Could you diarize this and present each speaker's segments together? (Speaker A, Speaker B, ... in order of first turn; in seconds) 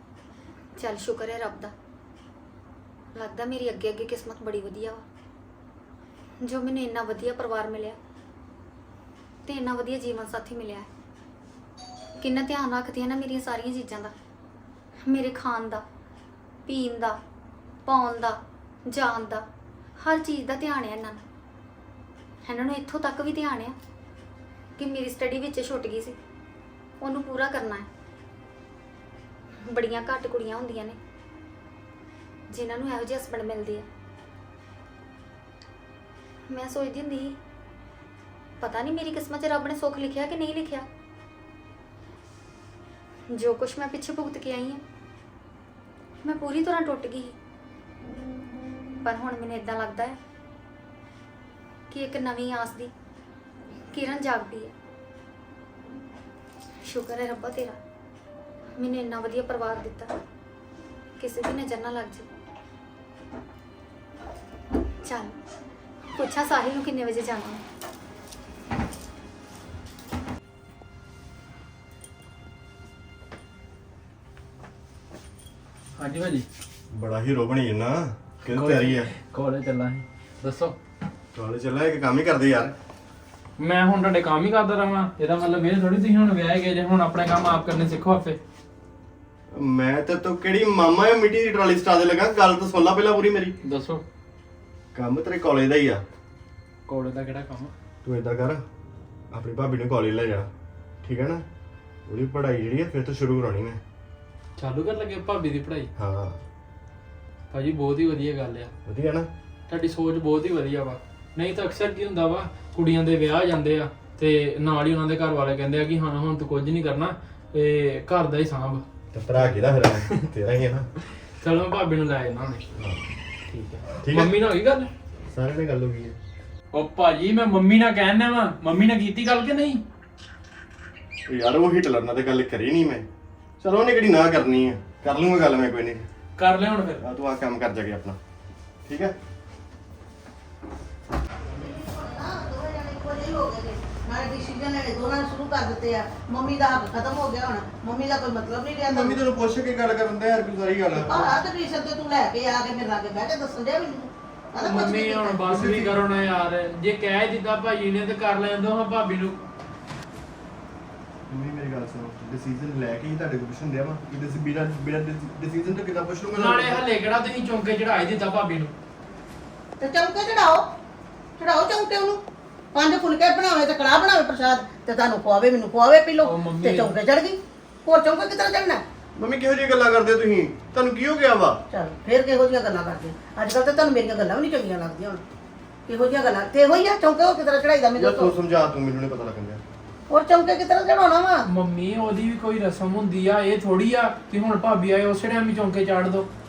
Speaker A: 0.8-1.7, 3.1-5.1, 6.4-8.0, 9.4-10.9, 12.2-14.1, 15.1-15.8, 16.7-17.2, 17.9-19.4, 20.0-21.2, 22.5-23.8, 24.8-26.2, 27.0-27.9, 29.6-31.0, 32.5-33.9, 36.5-37.4, 38.6-40.9, 43.3-44.8, 46.2-47.4, 49.0-50.2, 51.9-52.9, 53.9-54.7, 56.8-57.8, 58.8-60.1, 61.2-62.3, 65.0-65.4, 66.2-67.6
Speaker B: 76.0-76.5, 78.5-80.8, 83.6-88.4, 93.6-94.0, 96.9-97.7, 104.6-105.9, 107.5-108.7, 109.7-118.8, 121.4-122.6, 123.5-124.9, 126.7-129.8, 136.4-137.0, 154.6-159.4, 166.3-168.7, 176.2-176.9, 191.5-196.3
Speaker C: 76.9-79.1, 81.3-82.7, 89.5-93.6, 94.9-96.0, 98.0-98.6, 99.3-100.5, 101.0-101.5, 102.1-103.8, 106.0-106.4, 108.9-109.3, 119.1-120.9, 122.8-123.0, 124.0-124.5, 125.3-126.2, 131.3-133.1, 133.6-136.1, 137.0-138.2, 138.8-139.2, 148.9-151.4, 155.5-156.0, 161.3-166.9, 179.2-181.6, 188.0-189.6
Speaker D: 141.5-149.2, 150.9-155.5, 169.8-170.7, 171.4-172.2, 172.7-178.8, 181.7-185.2, 185.9-188.3, 190.1-191.5